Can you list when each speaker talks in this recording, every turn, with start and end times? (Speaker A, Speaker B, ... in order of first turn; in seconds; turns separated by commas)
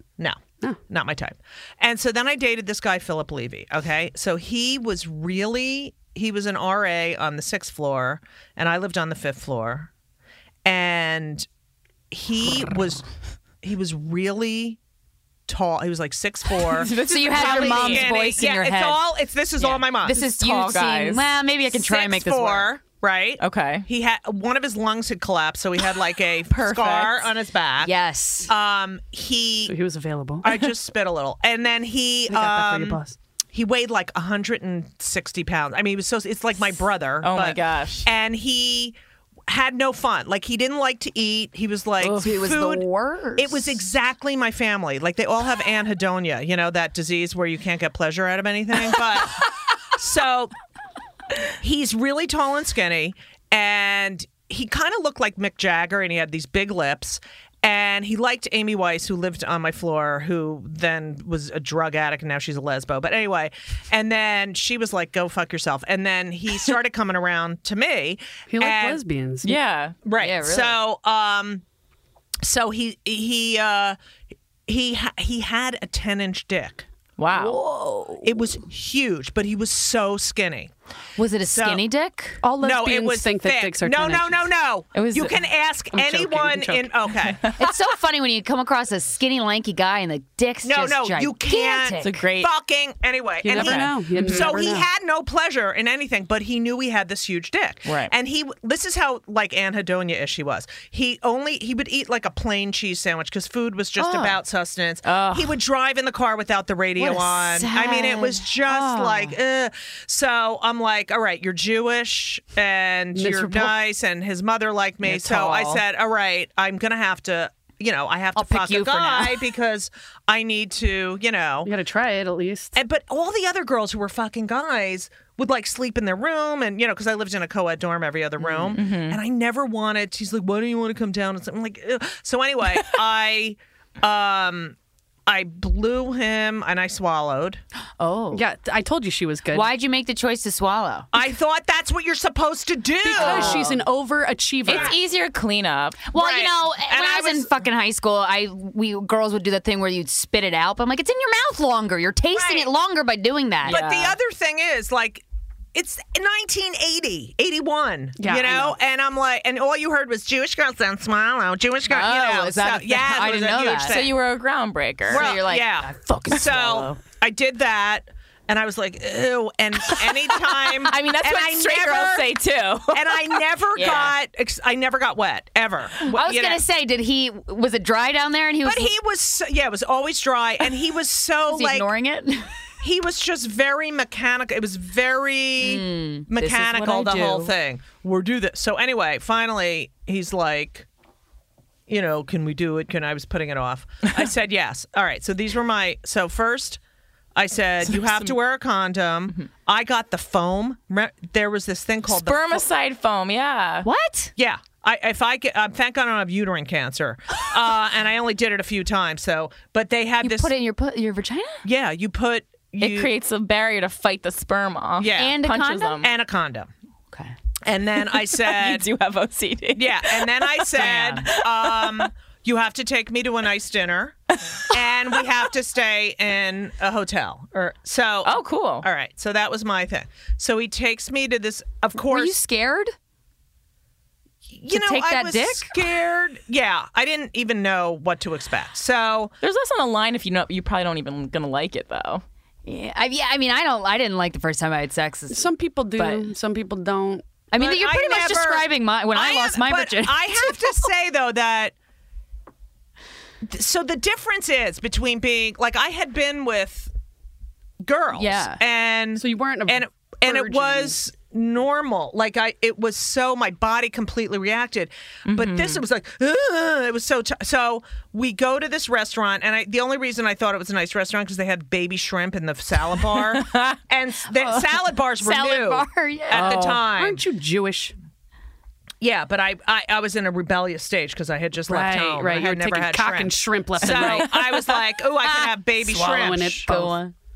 Speaker A: 0.2-9.9, Speaker A: 10.7-11.5, Speaker A: 12.1-13.0, Speaker A: 13.6-14.8, Speaker A: 15.5-20.2, Speaker B: 16.6-18.1, Speaker C: 16.8-19.1, Speaker C: 19.6-22.7, Speaker B: 20.1-21.4, Speaker A: 21.7-27.9, Speaker B: 23.4-23.9, Speaker B: 26.6-27.3, Speaker C: 27.8-28.5, Speaker A: 28.5-29.8, Speaker D: 29.7-30.6, Speaker A: 30.4-33.0, Speaker D: 32.3-33.2, Speaker A: 33.5-39.0, Speaker B: 37.2-38.1, Speaker A: 39.5-50.5, Speaker B: 42.0-42.3, Speaker C: 42.0-43.8, Speaker A: 51.6-69.0, Speaker D: 68.5-69.6, Speaker B: 69.4-70.0, Speaker A: 70.0-71.6, Speaker C: 70.2-70.8, Speaker A: 72.4-74.0, Speaker A: 74.7-76.9, Speaker B: 77.2-77.6, Speaker C: 77.3-78.4, Speaker A: 78.2-80.7, Speaker C: 81.2-82.4, Speaker A: 81.5-81.8, Speaker D: 82.4-84.5, Speaker A: 82.6-87.4, Speaker B: 85.0-85.4, Speaker D: 85.9-87.3, Speaker B: 87.4-87.7, Speaker C: 87.6-92.2, Speaker A: 90.6-121.7, Speaker B: 92.0-92.5, Speaker D: 93.4-94.9, Speaker B: 93.5-94.6, Speaker B: 97.9-98.1, Speaker C: 104.0-104.4, Speaker B: 105.0-105.5, Speaker C: 107.0-109.4, Speaker D: 113.2-113.8, Speaker C: 115.0-115.8, Speaker C: 118.3-119.5, Speaker D: 121.7-122.8, Speaker A: 122.8-137.6, Speaker C: 128.4-128.8, Speaker B: 128.8-129.2, Speaker C: 138.0-138.4, Speaker D: 138.3-139.7, Speaker C: 139.5-141.1, Speaker A: 141.1-143.7, Speaker D: 143.0-144.9, Speaker C: 143.1-143.8, Speaker B: 144.7-146.0, Speaker A: 144.7-144.9, Speaker C: 146.1-154.2, Speaker A: 146.1-147.5, Speaker A: 152.3-152.7, Speaker A: 153.7-155.2, Speaker A: 155.7-164.2, Speaker D: 158.2-158.8, Speaker C: 161.8-164.1, Speaker B: 163.8-165.3, Speaker C: 165.1-167.0, Speaker A: 165.1-172.3, Speaker B: 170.6-174.1, Speaker A: 172.9-176.6, Speaker C: 173.8-174.1, Speaker C: 176.1-178.9, Speaker A: 178.6-181.9, Speaker C: 181.5-182.5, Speaker A: 182.8-190.9, Speaker C: 185.6-187.5, Speaker A: 191.9-196.8, Speaker A: 197.3-202.7, Speaker B: 198.0-198.3, Speaker B: 202.1-203.9, Speaker C: 203.8-204.3, Speaker A: 204.4-210.5, Speaker C: 210.2-211.6, Speaker A: 211.6-213.1, Speaker B: 212.8-216.1, Speaker A: 215.0-215.4, Speaker C: 215.1-216.1, Speaker A: 216.0-216.7, Speaker A: 217.7-218.9, Speaker B: 218.1-222.1, Speaker A: 219.8-232.4, Speaker C: 220.8-221.3, Speaker B: 228.2-228.9, Speaker C: 232.0-232.9, Speaker A: 234.5-239.3, Speaker C: 234.7-235.9, Speaker B: 239.4-242.2, Speaker C: 242.7-245.5, Speaker D: 245.3-247.2, Speaker C: 247.5-250.9, Speaker A: 247.6-251.7, Speaker A: 253.4-256.9, Speaker A: 257.8-277.2, Speaker C: 258.1-258.6, Speaker D: 259.2-261.0, Speaker B: 265.3-265.8, Speaker B: 273.3-273.8, Speaker C: 274.4-276.8, Speaker B: 276.3-276.8, Speaker D: 276.9-277.9, Speaker A: 279.0-286.9, Speaker D: 281.7-284.7, Speaker B: 283.9-284.1, Speaker D: 285.8-287.0, Speaker C: 286.8-287.1